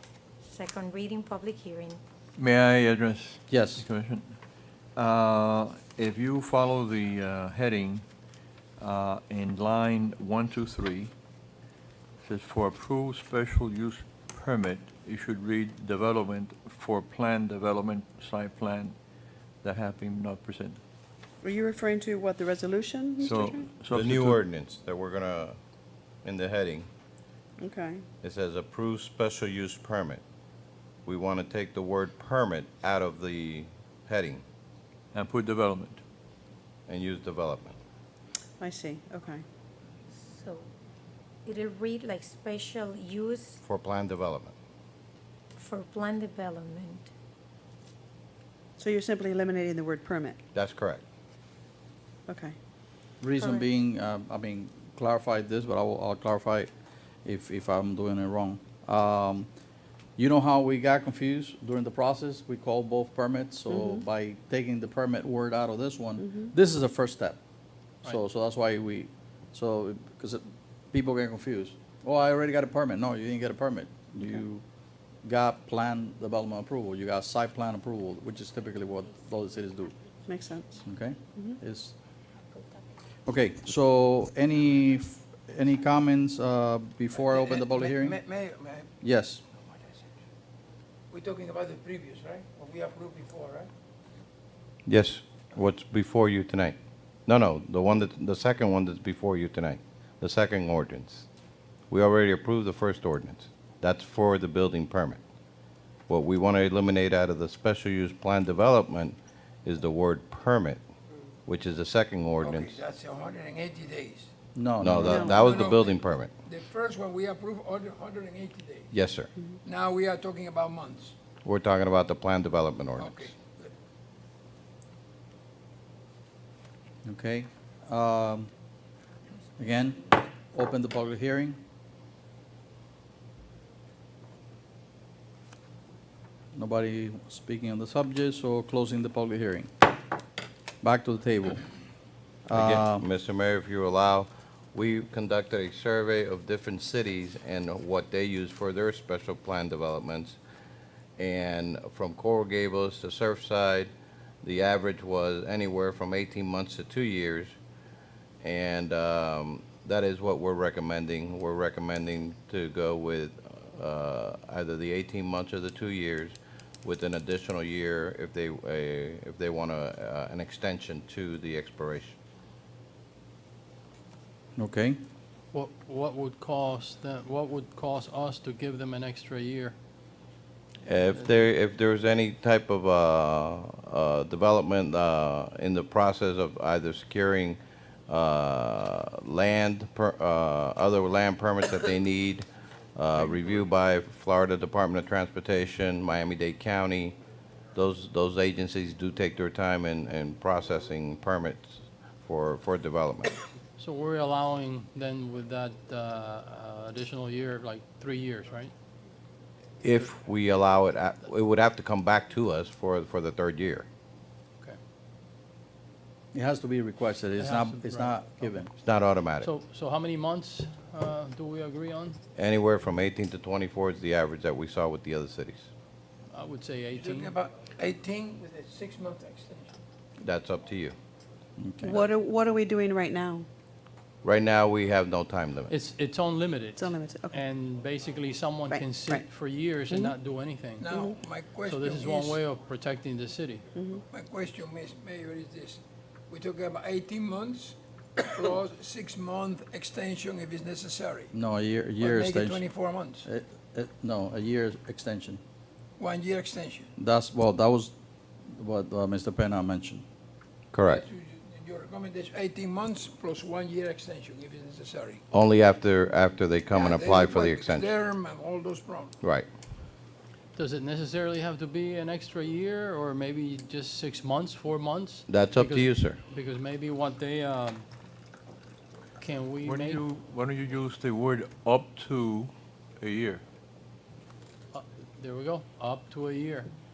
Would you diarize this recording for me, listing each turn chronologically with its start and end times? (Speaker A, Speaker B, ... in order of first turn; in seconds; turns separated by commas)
Speaker A: 0.4-2.0, Speaker B: 2.4-4.4, Speaker C: 3.5-3.9, Speaker B: 5.0-8.1, Speaker B: 8.8-11.1, Speaker B: 12.2-19.0, Speaker B: 19.6-20.8, Speaker D: 21.4-23.7, Speaker B: 23.2-24.4, Speaker E: 23.9-25.6, Speaker E: 26.2-26.9, Speaker D: 27.6-28.0, Speaker E: 28.2-30.2, Speaker E: 31.1-34.4, Speaker B: 35.1-36.0, Speaker E: 36.9-37.8, Speaker D: 38.6-39.4, Speaker A: 40.1-40.7, Speaker A: 41.5-43.6, Speaker E: 43.6-44.5, Speaker A: 45.5-47.1, Speaker D: 48.8-50.4, Speaker E: 50.5-51.0, Speaker D: 52.3-52.5, Speaker C: 53.2-56.7, Speaker A: 53.4-53.6, Speaker C: 57.2-59.5, Speaker C: 60.2-67.4, Speaker D: 63.7-64.0, Speaker C: 68.0-74.6, Speaker C: 75.2-80.0, Speaker D: 80.3-80.8, Speaker C: 80.8-82.0, Speaker C: 83.3-88.2, Speaker F: 87.2-88.9, Speaker C: 89.0-89.4, Speaker F: 89.7-90.1, Speaker F: 91.1-93.7, Speaker E: 94.9-96.8, Speaker E: 97.3-101.3, Speaker E: 101.9-105.2, Speaker E: 106.1-110.8, Speaker E: 111.5-112.8, Speaker F: 112.4-114.3, Speaker C: 114.5-115.6, Speaker E: 114.8-116.3, Speaker F: 114.9-118.9, Speaker D: 115.0-115.7, Speaker E: 118.9-119.3, Speaker F: 119.7-121.2, Speaker E: 121.4-123.3, Speaker F: 123.0-123.7, Speaker C: 127.1-128.5, Speaker C: 129.6-131.6, Speaker C: 136.5-139.7, Speaker C: 140.8-141.6, Speaker C: 142.5-143.1, Speaker E: 142.5-150.4, Speaker E: 151.2-153.9, Speaker E: 154.4-157.6, Speaker E: 158.4-172.2, Speaker C: 174.6-175.0, Speaker G: 175.5-179.8, Speaker E: 180.8-197.2, Speaker G: 181.1-181.4, Speaker E: 197.8-203.4, Speaker G: 203.8-208.7, Speaker E: 209.8-213.9, Speaker C: 216.3-218.7, Speaker G: 217.4-218.6, Speaker E: 218.8-219.5, Speaker G: 219.4-222.2, Speaker E: 222.4-225.7, Speaker G: 226.3-227.4, Speaker F: 227.0-229.8, Speaker E: 230.2-231.0, Speaker C: 231.6-232.0, Speaker D: 231.8-233.5, Speaker E: 234.2-235.7, Speaker G: 235.7-241.0, Speaker D: 236.8-237.4, Speaker D: 238.7-239.2, Speaker F: 240.8-242.4, Speaker D: 240.8-241.2, Speaker G: 241.7-243.7, Speaker D: 243.8-244.0, Speaker F: 244.1-251.3, Speaker C: 251.3-252.6, Speaker F: 252.0-253.3, Speaker C: 253.2-255.4, Speaker F: 256.0-256.9, Speaker C: 257.0-257.9, Speaker C: 258.5-260.0, Speaker E: 260.7-261.1, Speaker F: 260.9-265.2, Speaker E: 265.3-268.0, Speaker F: 266.7-269.1, Speaker E: 269.2-269.5, Speaker G: 270.6-277.9, Speaker E: 275.3-276.2, Speaker G: 279.2-280.0, Speaker B: 279.6-283.4, Speaker G: 284.7-286.7